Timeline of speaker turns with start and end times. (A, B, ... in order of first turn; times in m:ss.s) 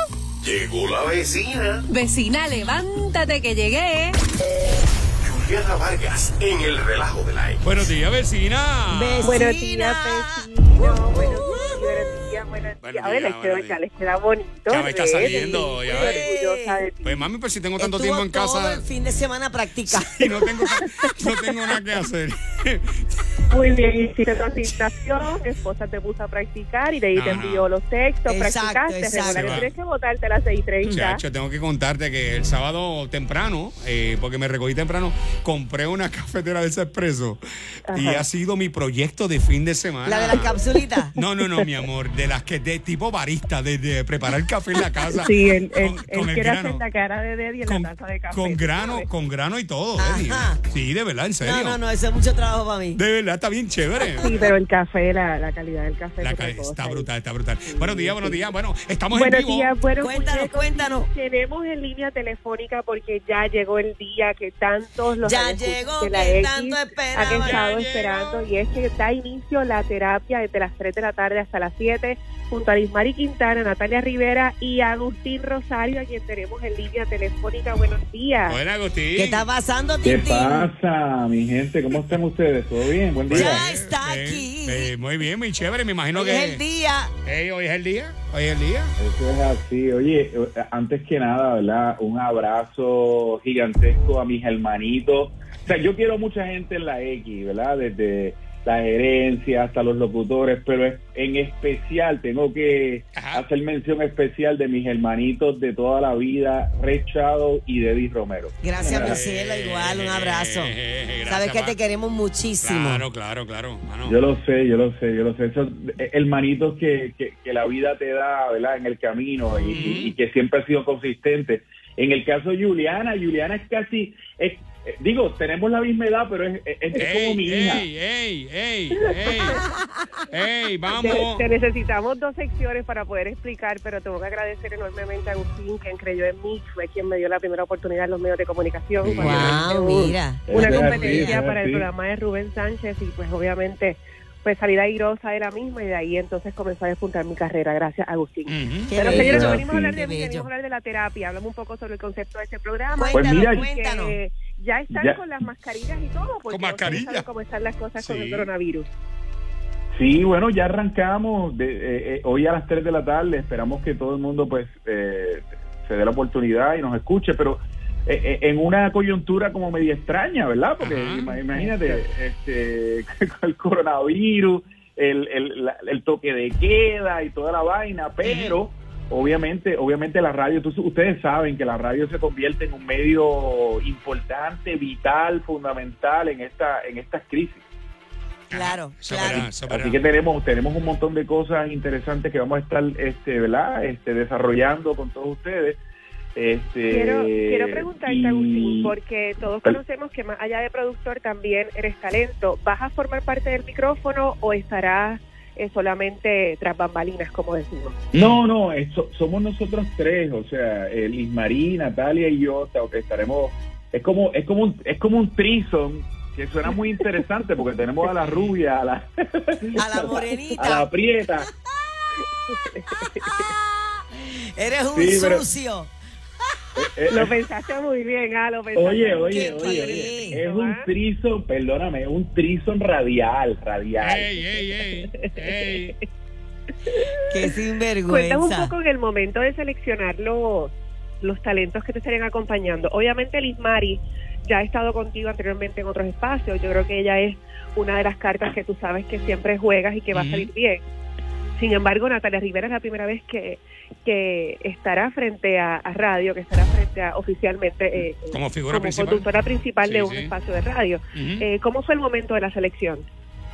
0:00.4-0:01.8 A
0:01.9-0:04.2 B
0:05.2-0:07.6 A
0:07.6-0:09.5 C
0:08.9-0:11.8 D
0:09.2-0:17.3 E
0:12.8-0:13.8 C
0:14.7-0:16.3 C
0:15.2-0:16.9 D
0:17.0-0:18.8 C
0:17.8-0:20.5 D
0:19.9-0:23.0 C
0:23.5-0:31.2 E
0:27.1-0:27.7 C
0:28.3-0:29.7 D
0:29.2-0:29.7 C
0:30.9-0:40.5 C
0:37.9-0:38.2 E
0:40.0-0:41.1 D
0:40.3-0:40.6 E
0:41.2-0:46.8 C
0:45.1-0:49.1 E
0:47.6-0:51.8 C
0:50.0-0:50.6 D
0:51.4-0:53.0 D
0:53.0-0:54.4 C
0:54.2-0:57.1 E
0:56.2-0:59.7 C
0:57.7-0:58.5 E
0:59.1-1:18.6 E
1:00.0-1:01.1 D
1:05.2-1:07.7 D
1:07.2-1:08.4 C
1:18.5-1:19.4 C
1:19.2-1:20.7 D
1:20.0-1:23.6 F
1:21.9-1:22.2 C
1:23.3-1:26.6 C
1:23.3-1:24.9 D
1:26.1-1:27.1 D
1:27.2-1:28.9 C
1:29.0-1:49.2 F
1:43.2-1:43.4 C
1:48.6-1:50.8 D
1:48.9-1:51.8 C
1:51.3-1:53.1 D
1:52.6-1:54.2 C
1:54.0-2:07.9 F
1:59.7-2:00.2 C
2:07.0-2:09.6 C
2:09.3-2:09.6 E
2:10.3-2:11.4 C
2:10.9-2:38.9 E
2:19.0-2:19.6 C
2:19.2-2:21.4 D
2:20.5-2:21.9 F
2:28.5-2:28.9 C
2:28.9-2:30.5 D
2:29.0-2:29.9 F
2:33.0-2:34.2 D
2:33.1-2:33.6 F
2:34.9-2:35.2 F
2:36.5-2:37.3 C
2:38.0-2:38.5 C
2:39.9-3:07.6 F
2:50.8-2:51.3 C
2:51.3-2:52.0 E
2:58.2-2:58.6 C
3:08.5-3:10.0 C
3:08.5-3:09.5 D
3:09.3-3:15.8 F
3:16.4-3:19.0 F
3:16.9-3:28.0 E
3:28.1-3:41.5 F
3:38.2-3:38.6 C
3:39.8-3:40.9 D
3:44.2-3:45.9 D
3:44.9-3:45.5 F
3:46.8-3:47.4 F
3:47.1-3:50.9 E
3:48.7-3:54.4 F
3:49.3-3:50.4 D
3:54.0-3:56.0 C
3:55.1-3:56.0 E
3:57.3-3:58.8 D
3:58.1-4:10.8 E
4:10.1-4:10.5 C
4:11.6-4:23.1 E
4:18.3-4:19.3 C
4:19.8-4:20.3 C
4:21.1-4:21.5 C